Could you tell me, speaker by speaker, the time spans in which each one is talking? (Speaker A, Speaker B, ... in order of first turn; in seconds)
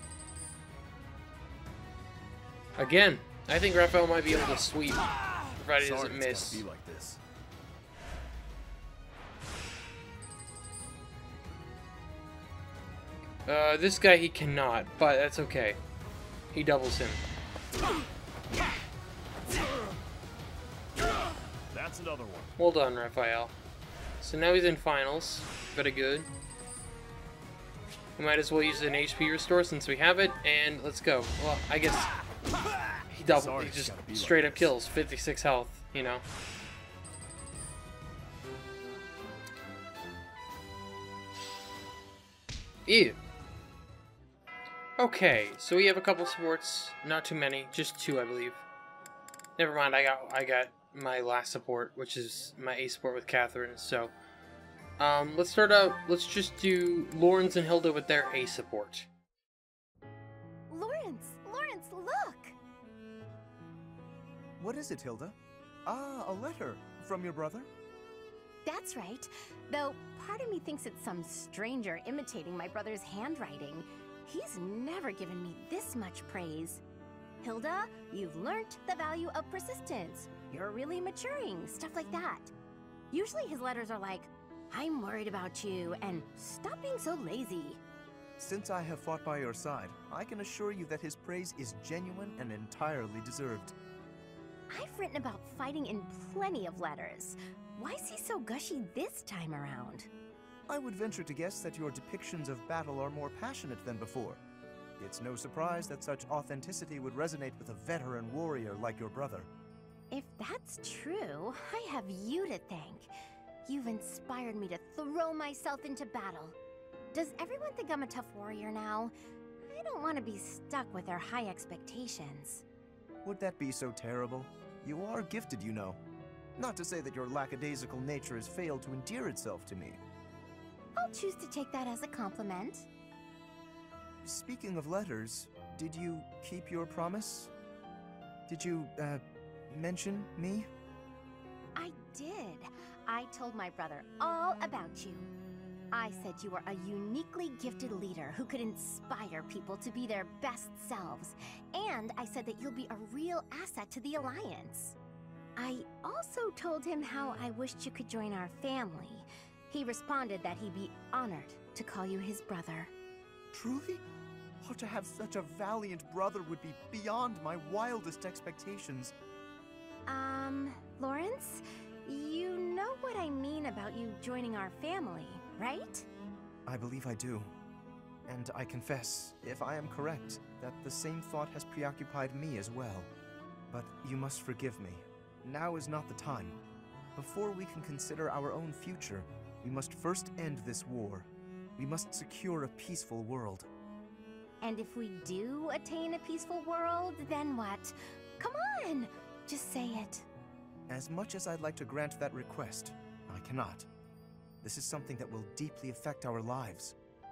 Speaker A: 2.8-6.6, 13.4-15.8, 16.5-17.2, 22.6-23.5, 24.2-26.3, 28.2-32.1, 33.1-36.2, 42.9-43.2, 45.0-48.6, 49.6-54.1, 55.0-59.1
Speaker B: 5.7-7.2, 21.7-22.5, 33.2-34.8
Speaker C: 60.7-62.5, 68.6-76.8, 77.4-82.5, 83.1-87.8, 94.7-100.1, 110.1-113.1, 113.6-116.6, 117.1-119.1, 119.6-122.6, 130.9-132.9, 141.7-145.3, 145.9-154.9, 155.6-162.9, 170.1-176.1, 194.6-200.3
Speaker D: 64.6-67.7, 88.4-93.7, 100.7-104.4, 105.0-109.5, 123.2-126.0, 126.6-130.0, 134.2-137.5, 138.5-140.7, 163.5-164.0, 164.6-169.1, 176.7-177.5, 178.3-183.1, 183.7-186.6, 187.1-193.7, 200.9-203.9, 204.6-206.9